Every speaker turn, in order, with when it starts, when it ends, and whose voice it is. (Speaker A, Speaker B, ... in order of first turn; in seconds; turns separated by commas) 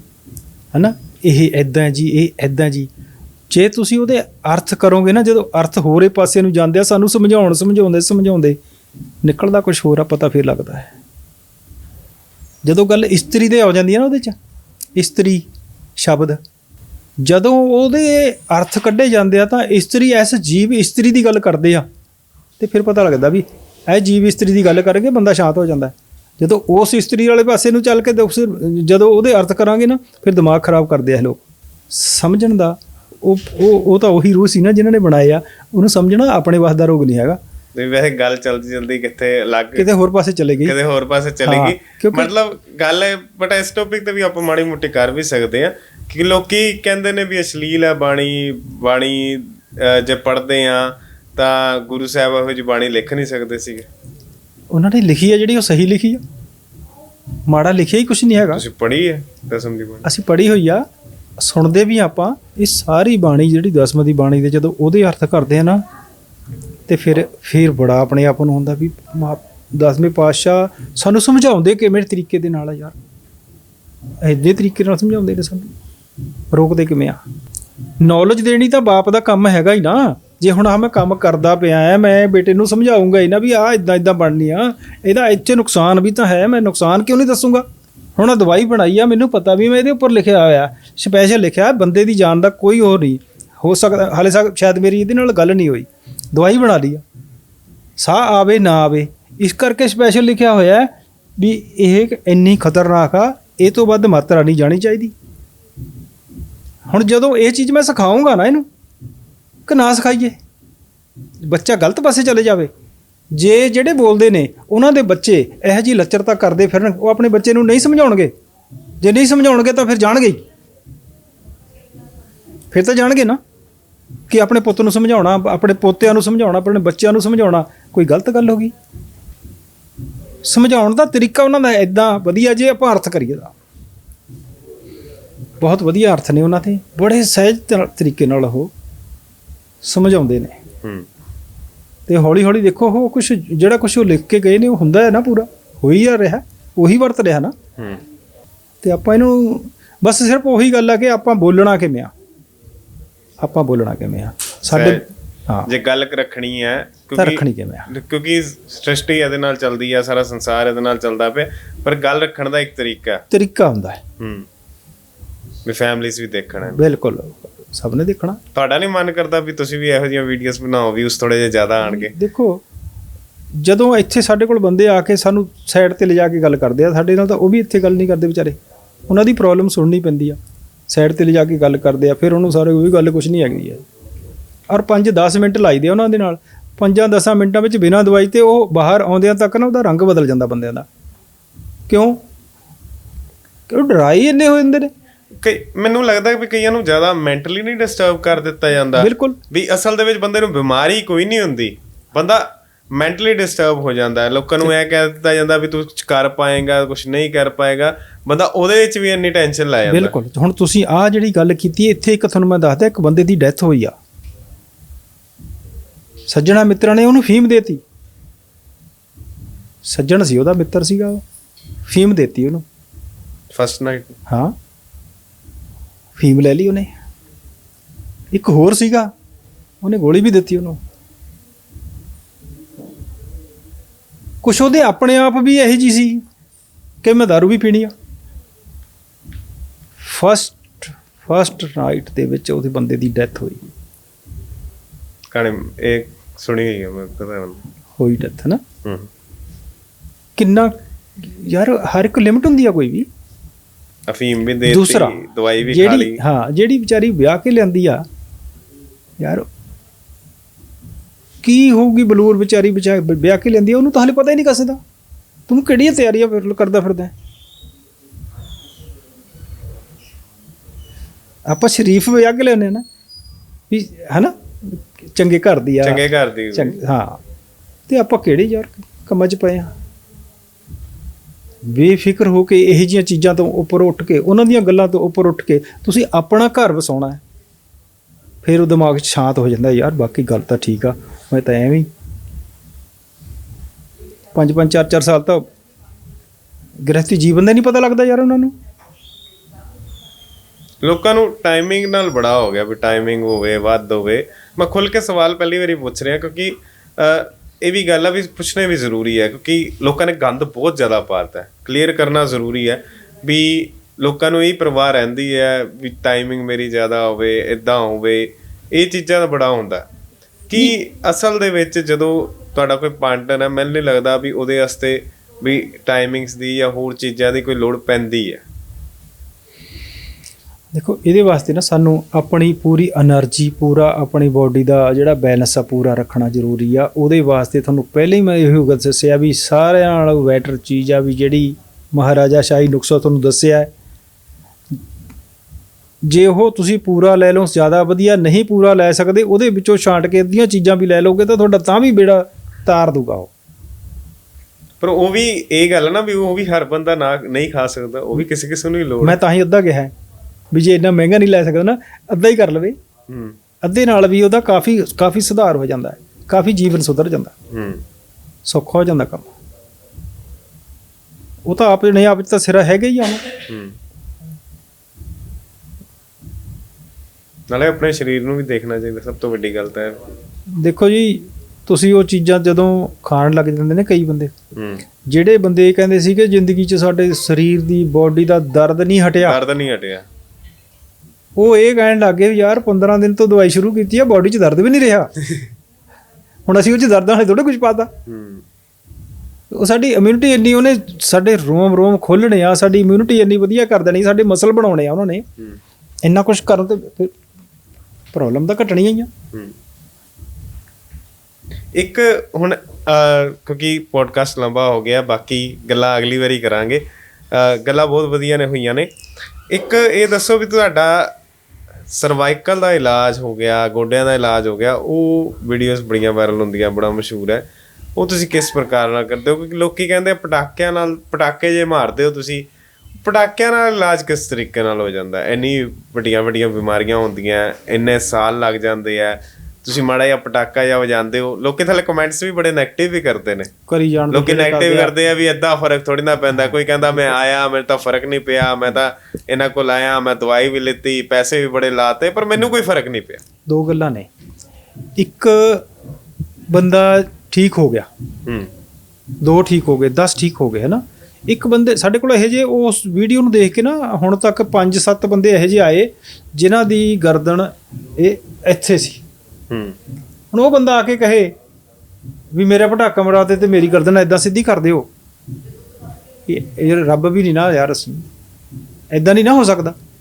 Speaker A: 0.7-2.9, Speaker A: 3.5-8.6, Speaker A: 9.2-10.9, Speaker A: 12.6-14.4, Speaker A: 14.9-16.4, Speaker A: 17.2-21.8, Speaker A: 22.6-37.4, Speaker B: 37.7-39.9, Speaker A: 39.8-40.8, Speaker B: 40.6-53.9, Speaker A: 41.4-42.3, Speaker A: 54.7-56.2, Speaker A: 57.5-58.6, Speaker B: 58.5-60.1, Speaker A: 60.0-60.8, Speaker A: 61.4-65.8, Speaker A: 66.9-73.0, Speaker A: 74.2-75.7, Speaker A: 76.5-77.2, Speaker A: 78.0-97.0, Speaker A: 98.0-105.1, Speaker A: 106.9-108.7, Speaker A: 109.7-110.4, Speaker A: 111.4-112.7, Speaker A: 113.3-118.3, Speaker A: 119.0-120.4, Speaker A: 122.7-123.4, Speaker A: 124.3-128.7, Speaker A: 130.4-133.5, Speaker A: 135.6-138.7, Speaker A: 139.8-140.6, Speaker A: 142.1-147.5, Speaker B: 147.8-148.0, Speaker A: 148.8-152.1, Speaker A: 153.4-155.7, Speaker B: 154.7-155.1, Speaker B: 155.7-163.2, Speaker A: 157.2-157.9, Speaker A: 163.3-164.0, Speaker B: 164.2-164.5, Speaker B: 165.7-166.8, Speaker A: 166.7-168.4, Speaker B: 168.5-172.1, Speaker A: 171.8-172.6, Speaker A: 173.5-178.6, Speaker A: 179.1-180.4, Speaker A: 180.9-183.8, Speaker A: 184.7-190.9, Speaker A: 191.9-192.2, Speaker A: 193.7-194.9, Speaker B: 195.4-210.1, Speaker A: 199.0-199.4, Speaker A: 209.9-213.9, Speaker A: 216.3-217.8, Speaker A: 219.8-221.2, Speaker A: 221.8-222.6, Speaker B: 223.5-224.2, Speaker A: 224.3-224.5, Speaker A: 226.2-226.9, Speaker A: 228.3-229.1, Speaker A: 229.8-230.8, Speaker A: 234.4-236.2, Speaker A: 237.0-237.9, Speaker A: 240.0-243.7, Speaker B: 245.3-247.6, Speaker A: 248.0-248.6, Speaker B: 248.8-249.1, Speaker A: 250.3-253.1, Speaker B: 254.1-256.2, Speaker A: 254.7-258.0, Speaker A: 259.2-259.4, Speaker A: 261.4-264.8, Speaker A: 265.5-267.1, Speaker A: 271.5-272.8, Speaker A: 273.7-277.2, Speaker B: 275.8-276.8, Speaker A: 277.9-279.7, Speaker A: 281.7-287.2, Speaker A: 288.4-291.9, Speaker A: 294.3-295.4, Speaker A: 296.9-298.5, Speaker B: 300.8-319.8, Speaker B: 320.5-328.4, Speaker A: 330.7-343.7, Speaker A: 346.1-353.3, Speaker B: 354.8-359.2, Speaker A: 359.0-359.9, Speaker A: 360.5-362.8, Speaker B: 363.1-363.4, Speaker A: 363.6-367.3, Speaker B: 367.5-367.8, Speaker A: 368.4-369.3, Speaker A: 371.4-373.3, Speaker B: 373.5-373.8, Speaker B: 377.5-380.0, Speaker A: 380.6-384.3, Speaker B: 384.5-384.8, Speaker A: 385.1-389.4, Speaker B: 389.2-390.1, Speaker A: 391.4-395.1, Speaker A: 396.4-397.9, Speaker B: 398.1-398.4, Speaker A: 399.5-405.2, Speaker A: 406.0-407.1, Speaker A: 408.1-409.1, Speaker B: 411.8-418.9, Speaker B: 419.5-421.1, Speaker B: 421.9-432.5, Speaker B: 433.0-443.5, Speaker A: 443.7-444.9, Speaker B: 444.1-453.2, Speaker A: 453.5-454.1, Speaker A: 455.0-455.6, Speaker A: 456.5-457.9, Speaker A: 459.2-469.0, Speaker B: 469.5-469.8, Speaker A: 470.3-471.3, Speaker A: 472.3-474.9, Speaker A: 476.3-478.1, Speaker A: 478.9-479.8